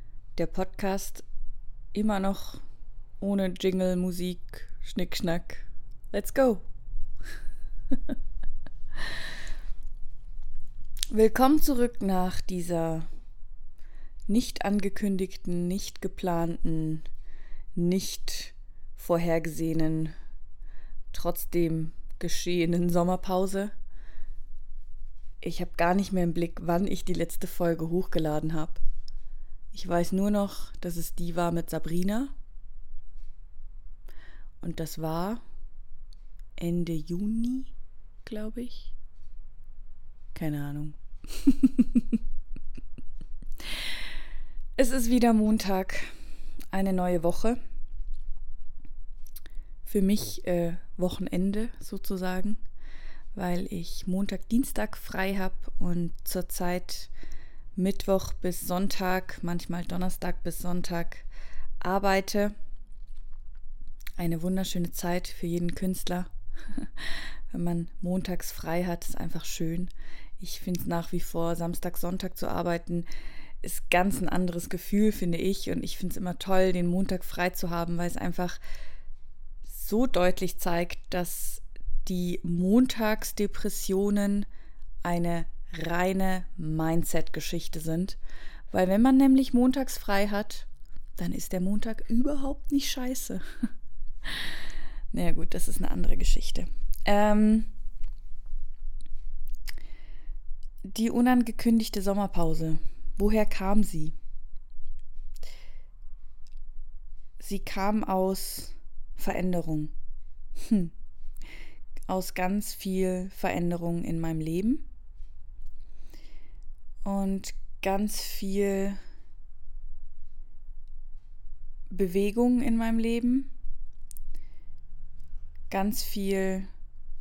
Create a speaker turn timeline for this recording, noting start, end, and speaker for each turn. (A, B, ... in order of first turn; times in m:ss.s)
0:00.4-0:01.2 A
0:01.9-0:02.6 A
0:03.2-0:06.6 A
0:11.1-0:13.1 A
0:14.3-0:17.0 A
0:17.8-0:20.1 A
0:21.1-0:23.7 A
0:25.4-0:28.8 A
0:29.7-0:32.3 A
0:34.6-0:35.4 A
0:36.6-0:37.7 A
0:38.2-0:38.9 A
0:40.4-0:42.1 A
0:44.8-0:46.1 A
0:46.7-0:47.6 A
0:49.8-0:52.6 A
0:53.3-0:57.1 A
0:57.8-1:01.3 A
1:01.8-1:02.5 A
1:04.2-1:13.1 A
1:13.6-1:18.6 A
1:19.6-1:24.5 A
1:25.0-1:28.2 A
1:28.7-1:33.4 A
1:34.2-1:34.5 A
1:35.1-1:37.7 A
1:40.8-1:44.2 A
1:47.4-1:49.9 A
1:50.6-1:50.9 A
1:52.1-1:54.8 A
1:57.0-1:59.0 A
2:01.9-2:03.5 A
2:05.7-2:06.7 A